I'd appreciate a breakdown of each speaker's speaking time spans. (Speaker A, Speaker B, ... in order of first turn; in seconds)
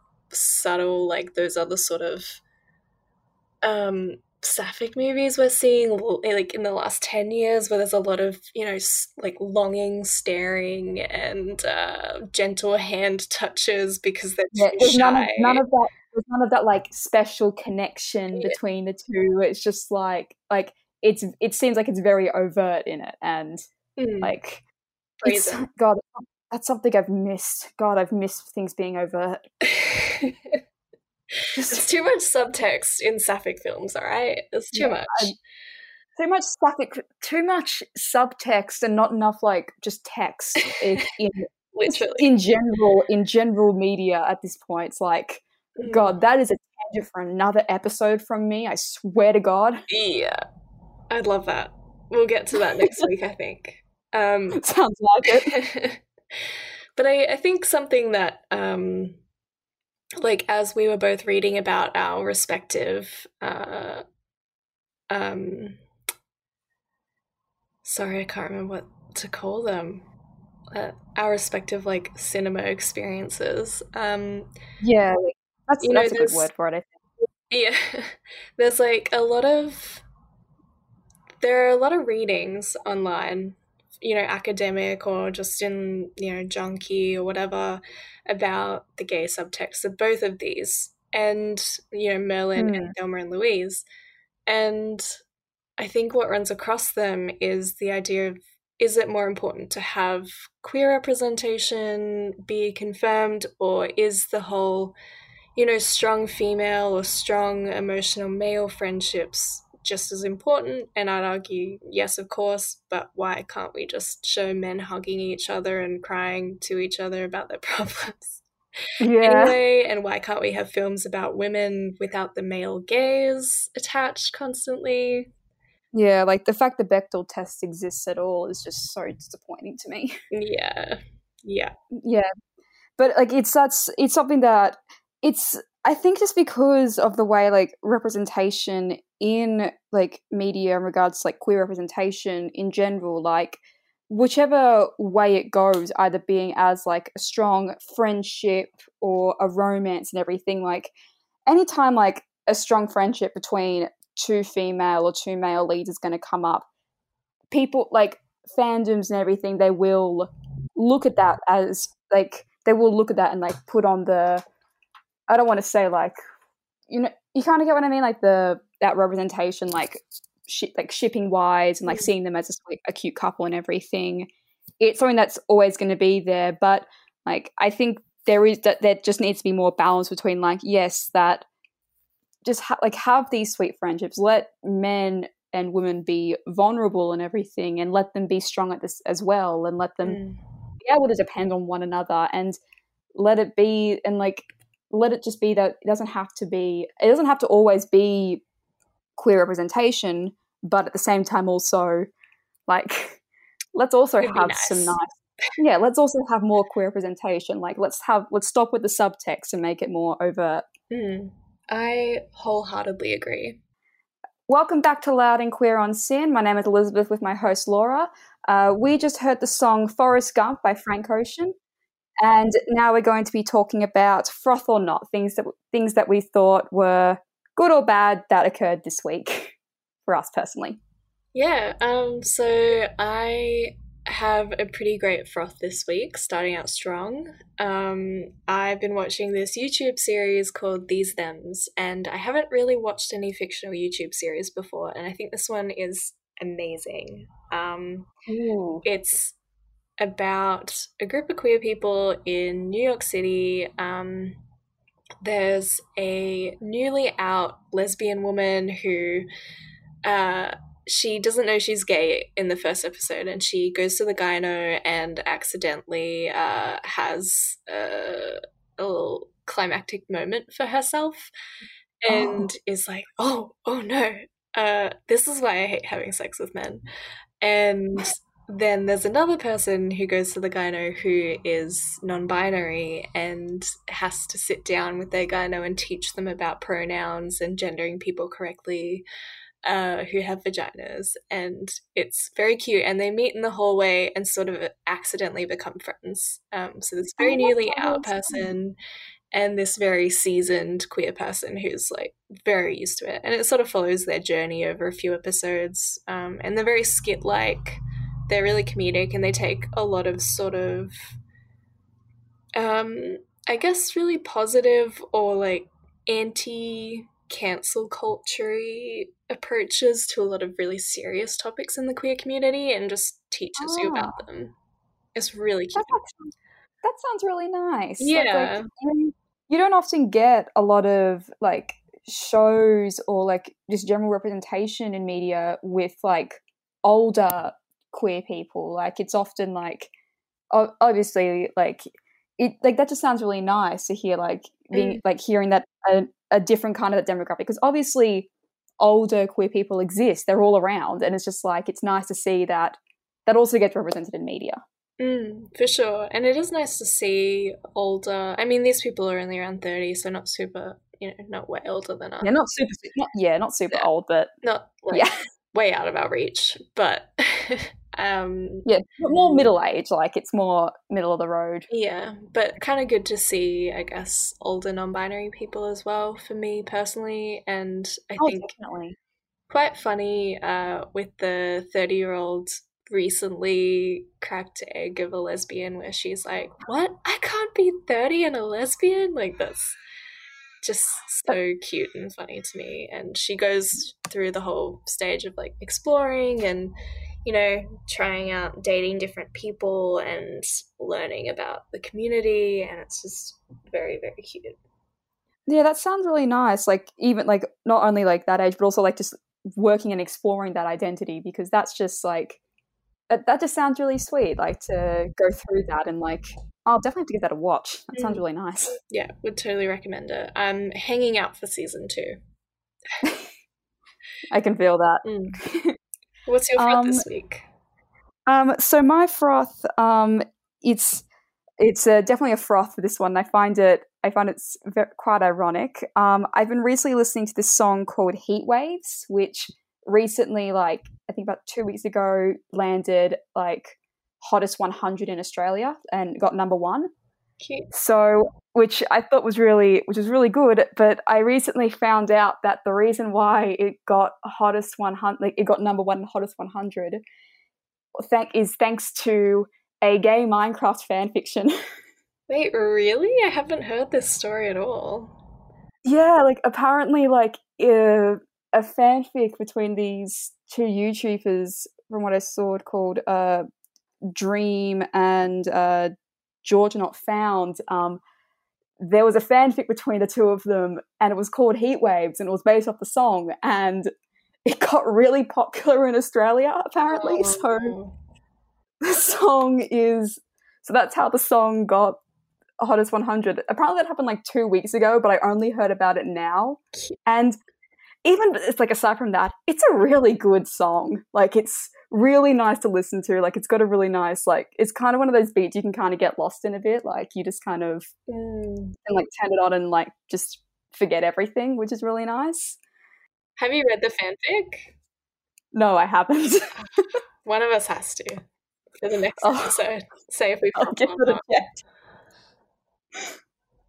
Speaker A: 0.3-2.4, 3.6-15.6, 24.0-24.3, 25.2-25.6, 29.6-30.6, 31.4-35.3, 41.7-42.3, 45.8-46.1, 49.9-50.4, 51.1-54.6, 55.3-56.4, 57.0-59.2, 60.2-64.0, 65.1-65.8, 67.8-70.0, 70.7-74.5, 75.8-76.5, 77.5-80.0, 81.4-93.8, 94.5-95.2, 95.8-104.9, 105.5-118.4, 119.2-125.3, 130.3-131.7, 190.0-190.4, 204.2-205.0, 210.9-213.6, 231.3-248.1, 248.8-249.3, 250.0-254.4, 255.2-259.3, 260.0-271.3, 272.0-276.8, 277.4-289.1, 289.6-298.8, 299.3-311.1, 312.6-324.5, 325.1-326.0, 328.0-328.7, 344.7-345.0, 355.0-362.3, 364.4-369.5, 371.7-378.5, 379.5-389.8, 390.6-396.7, 397.2-404.6, 417.9-418.2, 418.9-422.2, 425.0-425.4, 426.3-427.4, 447.4-447.7, 462.3-465.1, 486.9-487.9, 508.1-508.8, 513.4-514.7, 517.2-518.2, 518.8-521.2
Speaker B: 14.5-23.6, 24.2-24.6, 25.2-29.4, 31.6-31.8, 34.7-35.3, 36.1-49.8, 54.6-55.5, 74.8-77.0, 92.6-92.9, 119.0-119.5, 125.9-130.2, 131.9-132.3, 133.0-150.9, 151.4-156.7, 157.5-164.4, 165.3-166.2, 166.9-174.3, 174.8-181.4, 182.4-190.2, 190.8-192.6, 193.1-198.4, 199.2-202.1, 202.7-203.2, 203.7-205.1, 205.6-210.6, 214.5-221.5, 222.2-230.8, 248.3-248.8, 272.1-272.5, 297.2-298.5, 323.6-324.2, 325.7-339.9, 340.5-341.9, 342.4-354.6, 362.2-364.3, 368.6-371.7, 378.2-378.9, 405.5-412.4, 413.1-418.8, 423.0-423.3, 424.3-425.8, 426.6-427.0, 428.2-431.0, 431.6-446.9, 447.7-457.0, 458.0-461.5, 465.8-473.4, 474.0-475.9, 476.4-478.0, 478.8-483.9, 484.4-487.8, 488.8-492.0, 492.6-497.4, 498.0-507.9, 508.9-512.6, 515.5-516.5, 519.2-519.5, 520.5-521.6